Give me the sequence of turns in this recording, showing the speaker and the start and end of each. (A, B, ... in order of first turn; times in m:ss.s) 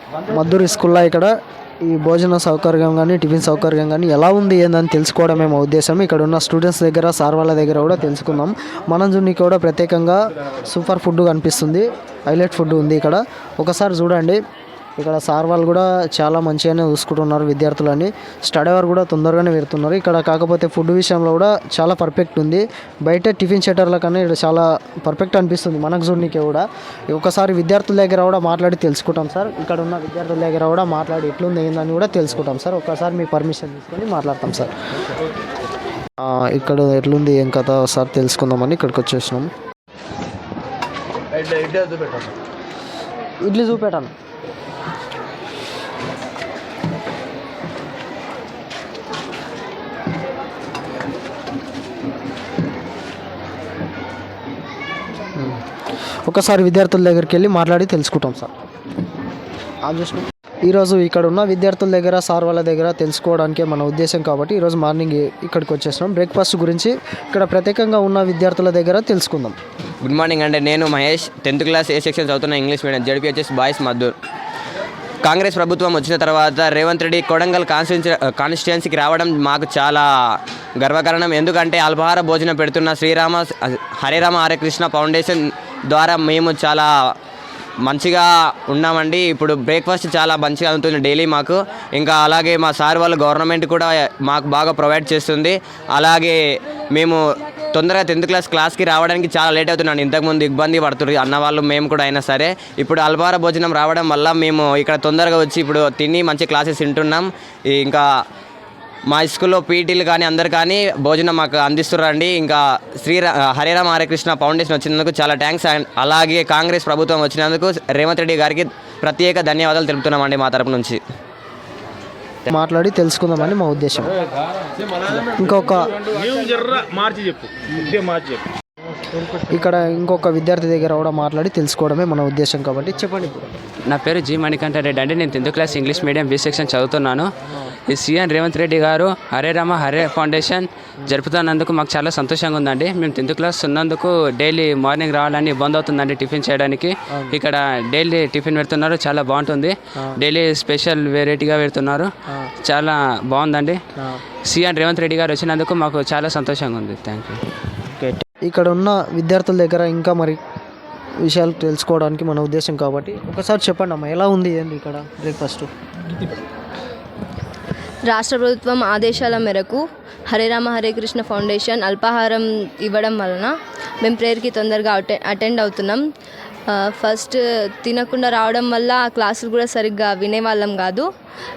0:00.3-0:01.3 A
0:01.8-0:14.4 A
0:15.0-0:34.7 A
0:36.2-0:39.5 A
0:43.4-0:44.1 A
0:56.3-0:58.5 A
0:59.8-1:09.6 A
1:10.0-1:14.1 B
1:15.2-1:20.0 B
1:20.8-1:25.4 B
1:25.9-1:26.9 B
1:27.8-1:36.4 B
1:37.8-1:48.0 B
1:49.1-2:01.0 B
2:02.5-2:04.1 A
2:05.2-2:05.9 A
2:06.3-2:08.4 C
2:09.5-2:13.5 A
2:13.8-2:17.3 D
2:17.9-2:32.1 D
2:32.6-2:33.8 D
2:34.4-2:37.4 D
2:37.9-2:40.4 A
2:41.3-2:45.7 A
2:48.1-2:56.0 E
2:56.7-3:01.1 E